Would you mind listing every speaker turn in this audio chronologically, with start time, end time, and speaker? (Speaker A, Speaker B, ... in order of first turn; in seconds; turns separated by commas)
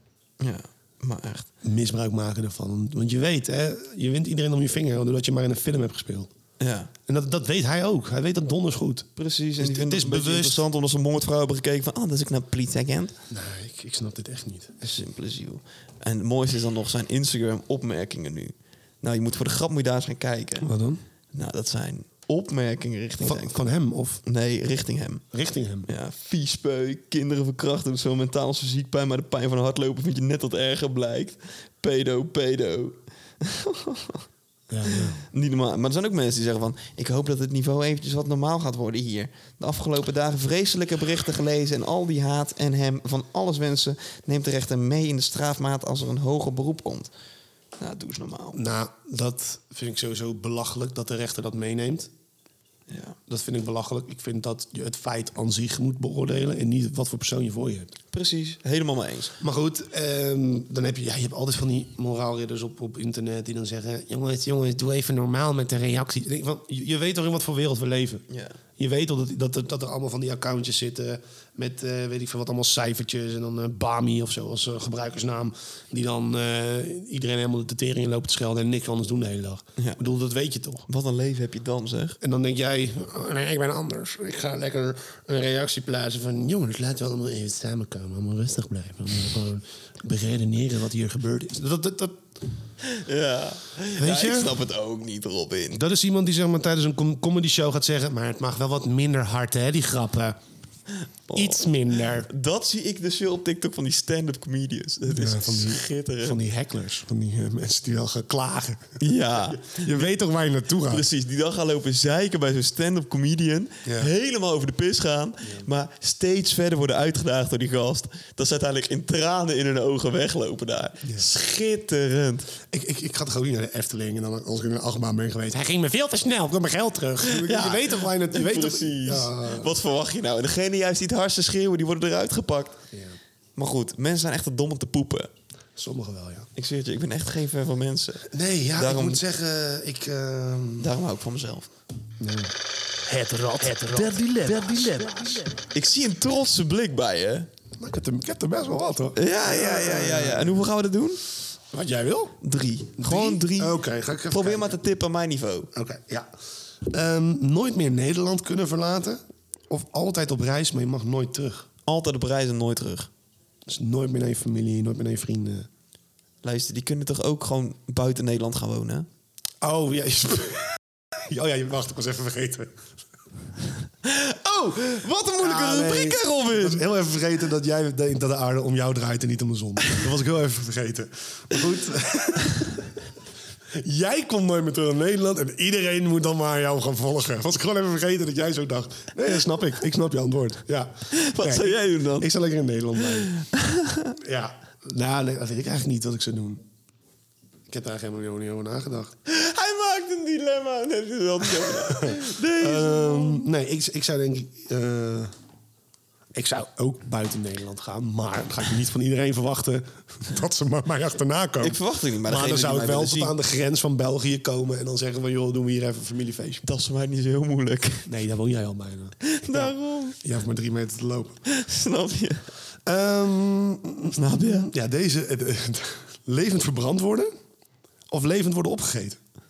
Speaker A: 0.4-1.5, Speaker B: 1.6-6.3, Speaker A: 6.6-6.9, Speaker B: 7.1-10.6, Speaker A: 9.2-13.2, Speaker B: 13.3-14.8, Speaker A: 14.8-20.7, Speaker B: 20.6-21.0, Speaker A: 21.3-23.6, Speaker B: 23.2-24.2, Speaker A: 24.2-25.2, Speaker B: 25.3-25.9, Speaker A: 25.9-34.2, Speaker B: 34.7-35.2, Speaker A: 34.9-47.1, Speaker A: 47.8-48.6, Speaker B: 48.5-52.1, Speaker A: 52.9-53.2, Speaker B: 53.3-57.9, Speaker A: 58.1-59.3, Speaker B: 59.4-68.2, Speaker A: 68.3-68.6, Speaker B: 68.8-80.9, Speaker A: 80.9-82.2, Speaker B: 82.2-92.3, Speaker A: 92.8-95.8, Speaker B: 94.0-94.6, Speaker B: 95.7-100.4, Speaker A: 101.3-101.6, Speaker B: 101.3-102.3, Speaker A: 102.2-106.4, Speaker B: 105.1-109.0, Speaker A: 109.0-110.1, Speaker B: 109.5-111.0, Speaker A: 110.9-122.5, Speaker B: 113.8-114.1, Speaker B: 122.7-129.7, Speaker A: 127.2-132.8, Speaker B: 132.9-133.2, Speaker A: 133.6-135.3, Speaker B: 135.8-136.5, Speaker A: 136.6-139.2, Speaker B: 138.3-140.9, Speaker A: 140.8-141.7, Speaker B: 142.2-142.5, Speaker B: 143.0-145.5, Speaker A: 143.9-147.5, Speaker B: 147.8-150.6, Speaker A: 149.2-151.2, Speaker B: 151.7-152.4, Speaker A: 152.4-153.8, Speaker B: 153.0-154.8, Speaker A: 154.3-155.7, Speaker B: 155.7-156.3, Speaker B: 156.8-161.7, Speaker A: 161.8-163.1, Speaker B: 163.7-165.7, Speaker A: 166.4-169.1, Speaker B: 169.6-172.8, Speaker A: 174.0-176.8, Speaker B: 175.4-182.9, Speaker B: 183.7-193.3, Speaker A: 191.1-192.3, Speaker A: 193.1-194.1, Speaker B: 194.2-196.6, Speaker B: 197.7-199.1, Speaker A: 199.2-203.4, Speaker B: 201.5-205.3, Speaker B: 206.3-216.6, Speaker A: 211.6-213.3, Speaker A: 216.6-218.1, Speaker B: 218.1-221.4, Speaker A: 219.2-220.2, Speaker A: 221.4-222.5, Speaker B: 222.8-227.3, Speaker A: 224.1-224.7, Speaker B: 228.1-229.2